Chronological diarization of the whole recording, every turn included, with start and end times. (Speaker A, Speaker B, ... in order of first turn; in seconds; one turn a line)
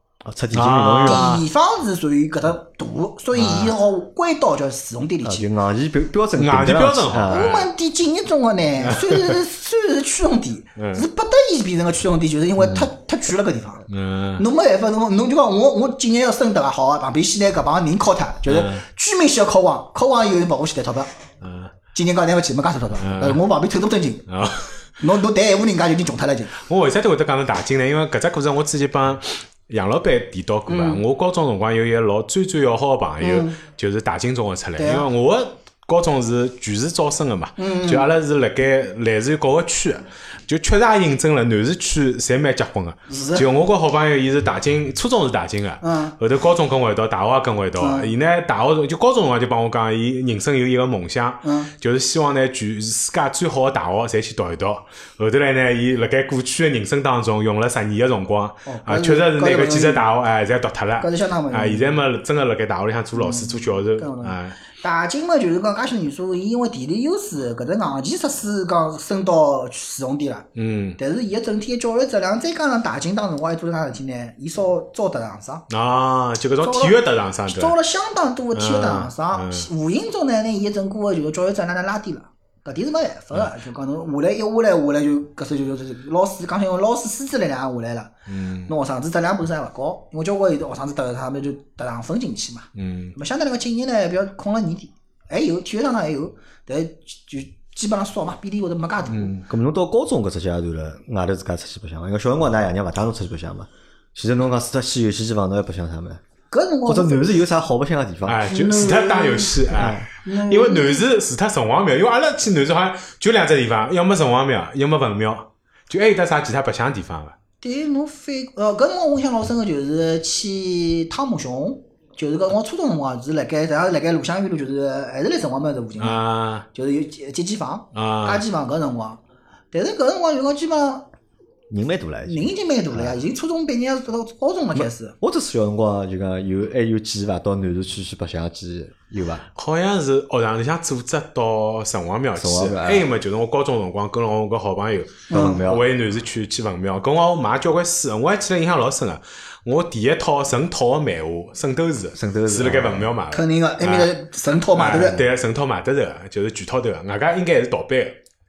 Speaker A: 0.2-1.4
Speaker B: 0.5-1.4
Speaker C: 1.0-5.5
Speaker B: 3.3-3.8
Speaker A: 5.2-7.5
Speaker B: 6.4-7.7
Speaker C: 7.3-13.9
Speaker B: 8.9-9.3
Speaker B: 10.8-11.1
Speaker B: 13.9-14.4
Speaker C: 14.4-21.1
Speaker B: 18.5-18.8
Speaker B: 21.4-21.7
Speaker C: 21.9-24.2
Speaker B: 23.0-23.4
Speaker B: 24.3-24.8
Speaker C: 25.0-26.5
Speaker B: 26.6-64.6
Speaker C: 30.7-31.0
Speaker C: 33.2-33.6
Speaker C: 34.8-35.1
Speaker C: 37.6-38.1
Speaker C: 43.1-43.5
Speaker C: 45.8-46.1
Speaker C: 47.8-48.1
Speaker C: 51.4-51.7
Speaker C: 58.7-60.0
Speaker C: 61.0-62.0
Speaker C: 63.1-70.5
Speaker B: 70.5-71.0
Speaker C: 71.0-75.7
Speaker B: 75.7-77.8
Speaker C: 76.6-88.1
Speaker B: 78.5-79.7
Speaker B: 88.3-88.7
Speaker C: 88.7-99.3
Speaker B: 92.8-93.1
Speaker B: 99.1-99.4
Speaker A: 99.5-106.2
Speaker C: 106.5-107.4
Speaker A: 106.9-108.5
Speaker B: 108.3-117.3
Speaker C: 108.5-109.6
Speaker A: 109.7-110.1
Speaker C: 110.2-111.0
Speaker C: 117.6-129.2
Speaker B: 126.0-126.7
Speaker B: 128.0-128.4
Speaker C: 129.7-131.1
Speaker A: 131.7-133.2
Speaker C: 132.3-135.1
Speaker A: 134.8-139.5
Speaker B: 139.6-154.1
Speaker A: 142.3-143.1
Speaker C: 145.3-145.6
Speaker A: 145.3-145.9
Speaker A: 152.1-153.1
Speaker C: 153.3-155.2
Speaker B: 154.7-158.2